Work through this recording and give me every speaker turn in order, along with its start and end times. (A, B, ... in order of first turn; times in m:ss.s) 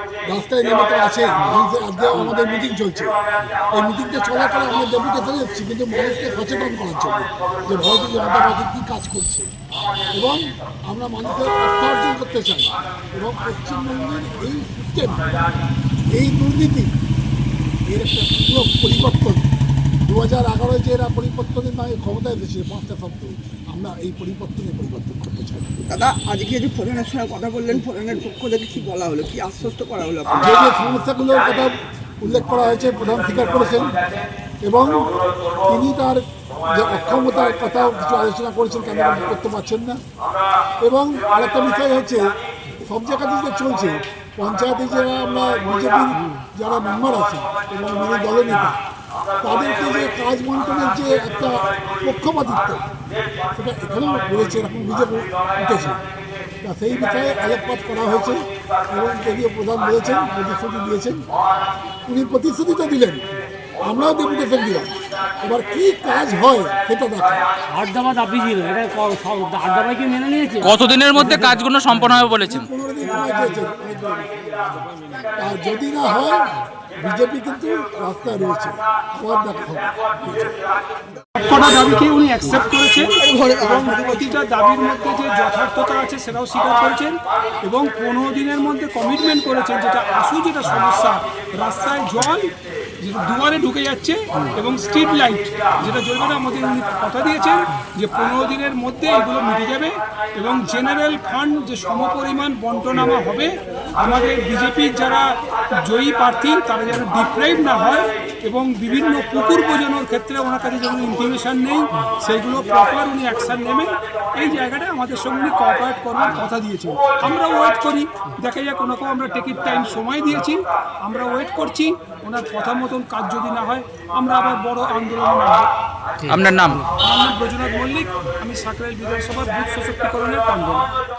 0:00.2-0:03.1 A
0:03.7-0:09.5 A
0:10.1-0:15.4 A
0:16.1-0:16.9 A
0:17.9-0:19.5 A
0:20.0-0:25.8 A
0:25.8-0:30.4 B
0:30.3-0:34.0 A
0:34.6-0:40.0 A
0:40.8-0:48.8 A
0:49.4-0:52.8 A
0:53.5-0:56.0 A
0:56.6-1:01.2 A
1:02.1-1:03.3 A
1:03.8-1:07.4 A
1:07.6-1:11.3 C
1:10.6-1:12.7 D
1:11.2-1:14.6 A
1:15.3-1:20.5 A
1:21.4-2:05.7 E
1:23.0-1:24.4 B
2:06.3-2:06.8 D
2:07.0-2:10.9 E